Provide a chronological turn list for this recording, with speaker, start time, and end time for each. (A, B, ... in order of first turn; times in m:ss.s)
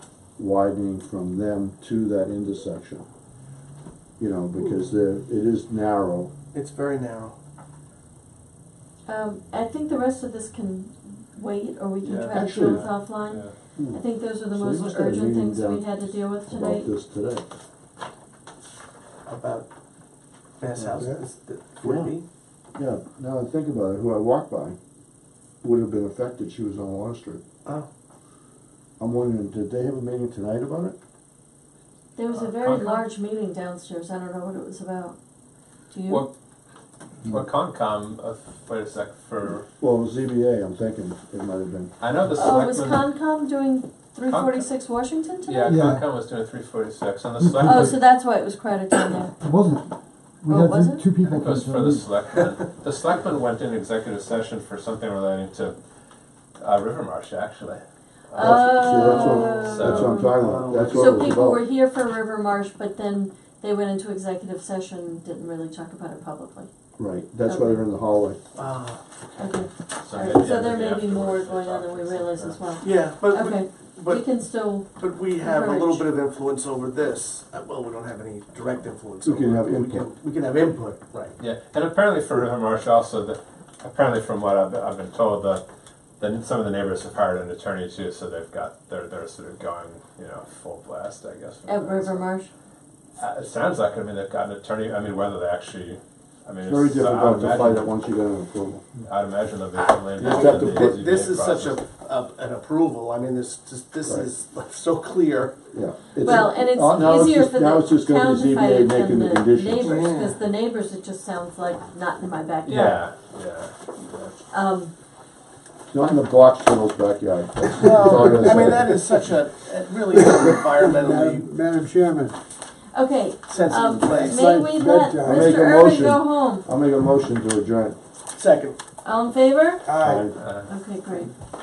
0:00.4-0:03.0 A
0:04.2-0:06.3 A
0:06.5-0:07.4 B
0:09.1-0:16.9 C
0:12.0-0:13.5 D
0:12.3-0:12.9 A
0:14.5-0:17.4 A
0:19.3-0:19.7 B
0:20.6-0:22.2 B
0:20.8-0:21.0 A
0:21.8-0:22.1 A
0:22.8-0:24.8 A
0:25.6-0:27.4 A
0:29.0-0:31.0 A
0:32.2-0:35.2 C
0:32.3-0:33.1 D
0:35.9-0:36.3 C
0:37.2-0:39.7 D
0:39.8-0:41.9 A
0:42.0-0:43.1 D
0:42.3-0:45.8 C
0:44.3-0:44.7 D
0:45.4-0:48.0 D
0:45.7-0:46.0 E
0:47.6-0:49.3 C
0:49.4-0:52.0 E
0:50.5-0:51.1 C
0:51.2-0:55.8 D
0:56.6-0:59.1 D
0:58.3-1:00.4 C
0:58.4-1:01.6 A
0:59.0-1:01.3 B
0:59.7-1:00.4 D
1:00.9-1:06.7 C
1:07.0-1:08.4 A
1:07.4-1:07.8 C
1:08.6-1:09.7 B
1:09.4-1:16.1 C
1:10.0-1:12.6 D
1:12.8-1:14.2 B
1:15.0-1:21.4 B
1:19.2-1:20.1 A
1:21.4-1:25.6 D
1:26.2-1:32.2 D
1:31.6-1:32.5 C
1:33.2-1:37.9 D
1:36.6-1:38.9 A
1:39.1-1:41.8 D
1:40.2-1:41.0 A
1:40.2-1:45.6 B
1:45.7-1:50.0 A
1:46.2-1:53.1 C
1:49.8-1:50.3 B
1:52.6-1:54.3 D
1:54.5-1:54.9 C
1:55.9-1:58.9 A
1:57.8-2:01.5 B
1:58.2-1:59.0 E
2:00.1-2:02.4 E
2:02.9-2:06.7 C
2:03.5-2:04.4 B
2:04.0-2:05.5 E
2:05.2-2:08.0 A
2:08.3-2:08.8 B
2:09.0-2:09.9 C
2:09.8-2:10.3 B
2:10.0-2:10.4 A
2:10.4-2:10.7 D
2:10.7-2:11.3 C